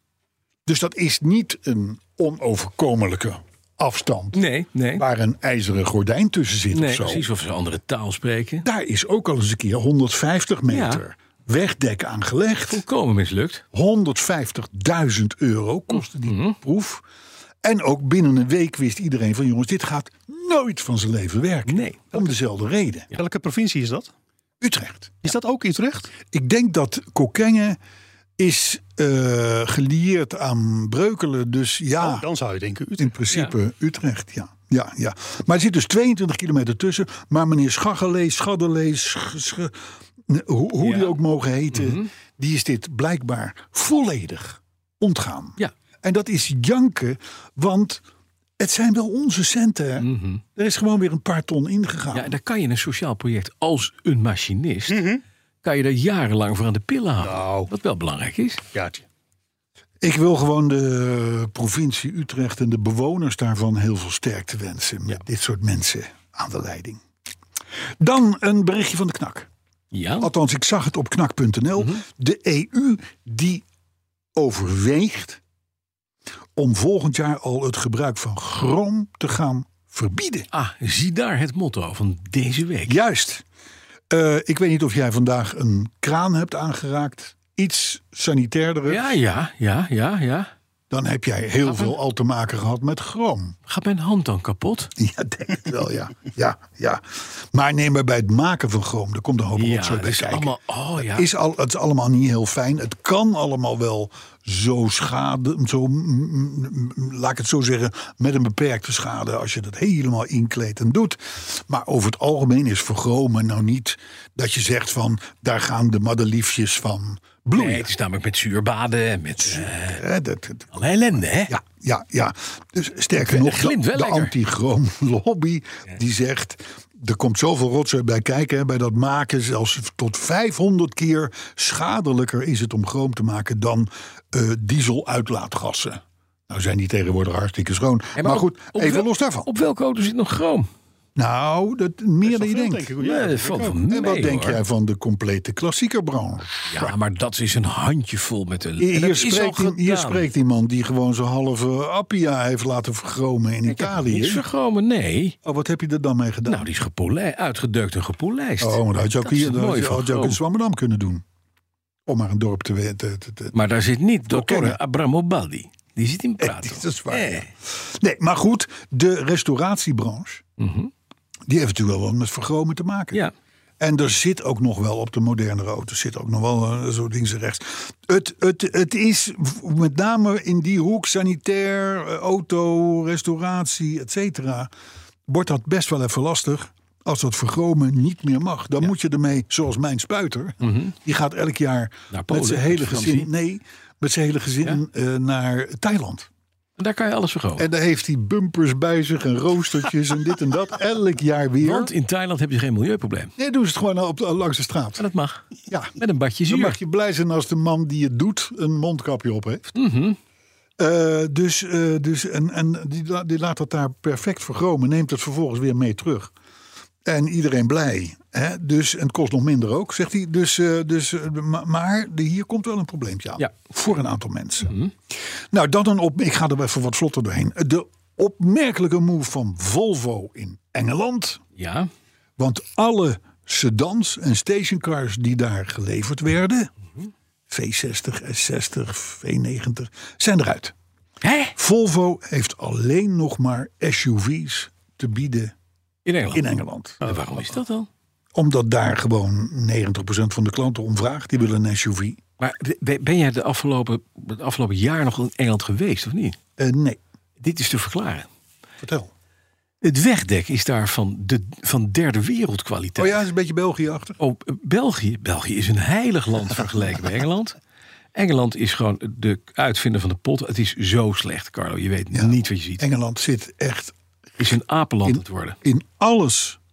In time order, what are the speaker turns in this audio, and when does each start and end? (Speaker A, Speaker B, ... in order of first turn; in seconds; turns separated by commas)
Speaker A: 0.7-4.4, Speaker B: 4.3-5.0, Speaker A: 5.0-7.3, Speaker B: 6.7-8.7, Speaker A: 8.6-12.8, Speaker B: 10.7-11.0, Speaker B: 12.7-13.7, Speaker A: 13.7-17.0, Speaker B: 16.2-16.6, Speaker A: 17.6-23.1, Speaker B: 21.7-22.1, Speaker C: 23.1-24.1, Speaker A: 24.6-25.2, Speaker C: 25.2-26.1, Speaker A: 26.3-27.8, Speaker A: 28.4-32.3, Speaker C: 32.0-33.2, Speaker A: 33.0-48.0, Speaker B: 40.8-41.1, Speaker B: 41.7-42.1, Speaker A: 48.6-52.4, Speaker B: 50.0-50.4, Speaker B: 52.1-55.0, Speaker C: 54.9-55.2, Speaker B: 55.6-58.6, Speaker C: 57.2-57.7, Speaker C: 58.7-59.0, Speaker A: 60.0-67.0, Speaker A: 68.0-69.5, Speaker B: 69.9-70.3, Speaker A: 70.2-73.6, Speaker A: 74.4-75.4, Speaker A: 76.6-80.5, Speaker B: 80.5-83.0, Speaker A: 82.9-83.5, Speaker A: 84.1-89.2, Speaker B: 88.9-90.5, Speaker A: 90.9-93.6, Speaker B: 91.6-92.0, Speaker B: 93.7-94.9, Speaker A: 95.0-117.9, Speaker B: 99.6-101.3, Speaker B: 117.5-120.0, Speaker A: 119.4-120.9, Speaker B: 120.7-121.5, Speaker A: 121.5-139.5, Speaker B: 123.2-124.3, Speaker B: 138.2-140.7, Speaker A: 141.2-142.9, Speaker C: 142.2-143.8, Speaker B: 143.0-144.6, Speaker A: 143.9-146.9, Speaker B: 146.7-150.2, Speaker A: 148.8-154.4, Speaker B: 153.7-155.4, Speaker A: 155.4-156.7, Speaker B: 156.5-160.4, Speaker A: 158.6-161.2, Speaker A: 162.1-163.6, Speaker B: 163.5-167.5, Speaker A: 164.3-164.8, Speaker A: 166.4-170.4, Speaker B: 170.6-170.9, Speaker A: 171.5-173.2, Speaker A: 173.8-184.7, Speaker A: 185.3-196.3, Speaker B: 190.6-190.9, Speaker B: 192.1-193.3, Speaker B: 196.8-197.7, Speaker A: 197.6-201.9, Speaker B: 201.6-203.3, Speaker A: 203.4-205.1, Speaker B: 205.0-205.5, Speaker A: 205.7-206.0, Speaker B: 206.0-206.8, Speaker A: 206.5-209.8, Speaker B: 209.8-210.2, Speaker A: 210.8-216.3, Speaker A: 217.1-224.7, Speaker A: 225.5-231.4, Speaker B: 231.6-231.9, Speaker A: 232.4-236.7, Speaker A: 237.5-240.7, Speaker B: 241.2-241.5, Speaker A: 241.6-245.5, Speaker B: 246.1-246.5, Speaker A: 246.3-247.0, Speaker B: 247.0-247.9, Speaker A: 248.3-252.2, Speaker B: 252.4-256.4, Speaker A: 256.6-257.0, Speaker B: 257.4-258.3, Speaker A: 258.8-259.1, Speaker B: 259.8-263.2, Speaker A: 263.0-264.2, Speaker B: 264.2-267.6, Speaker B: 268.1-272.8, Speaker A: 272.1-274.0, Speaker B: 274.4-275.6, Speaker A: 275.1-276.6